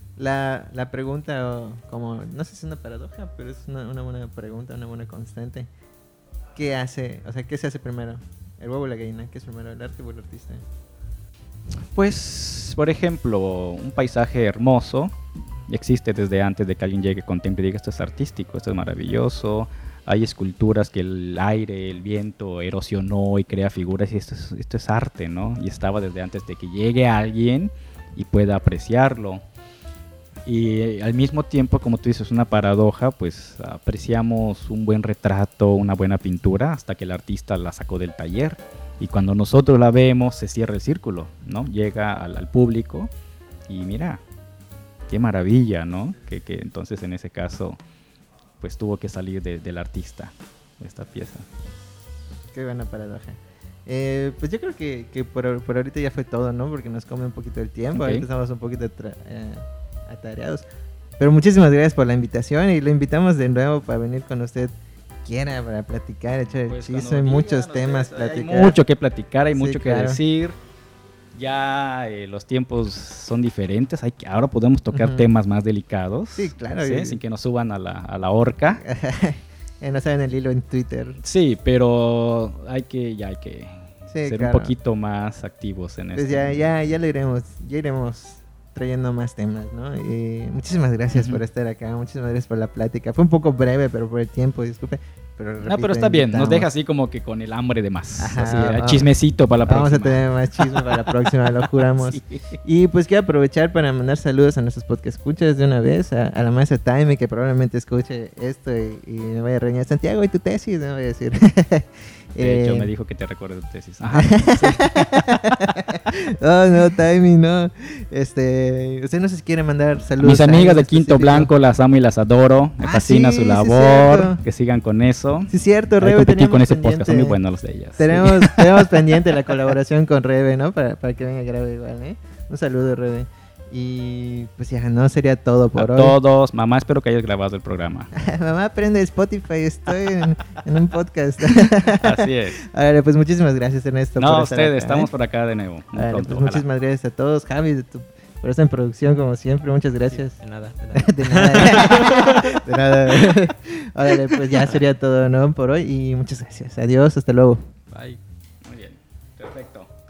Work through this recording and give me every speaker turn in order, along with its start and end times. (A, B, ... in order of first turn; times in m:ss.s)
0:00.2-0:05.7 A
0:06.5-0:10.6 A
0:11.9-0:29.4 B
0:30.4-0:43.1 B
0:43.7-0:44.2 B
0:45.1-0:47.8 B
0:48.6-0:51.5 B
0:52.5-1:00.6 A
0:57.9-0:58.2 B
1:01.2-1:04.7 A
1:05.2-1:08.8 A
1:06.6-1:10.6 B
1:09.5-1:10.2 A
1:11.3-1:18.8 B
1:14.9-1:15.2 A
1:16.3-1:17.2 A
1:18.8-1:21.2 A
1:21.2-1:26.6 B
1:24.1-1:24.7 A
1:26.1-1:36.7 A
1:31.1-1:31.4 B
1:35.6-1:42.6 B
1:38.2-1:39.1 A
1:39.6-1:52.9 A
1:52.4-1:56.0 B
1:54.1-2:01.5 A
2:00.2-2:05.5 B
2:02.8-2:04.4 A
2:05.5-2:07.4 A
2:06.0-2:09.1 B
2:08.0-2:16.2 A
2:15.7-2:18.1 B
2:18.1-2:25.1 A
2:21.9-2:22.6 B
2:24.2-2:26.6 B
2:26.0-2:30.4 A
2:30.3-2:32.6 C
2:30.9-2:37.7 A
2:37.9-2:38.2 C
2:38.6-2:39.9 B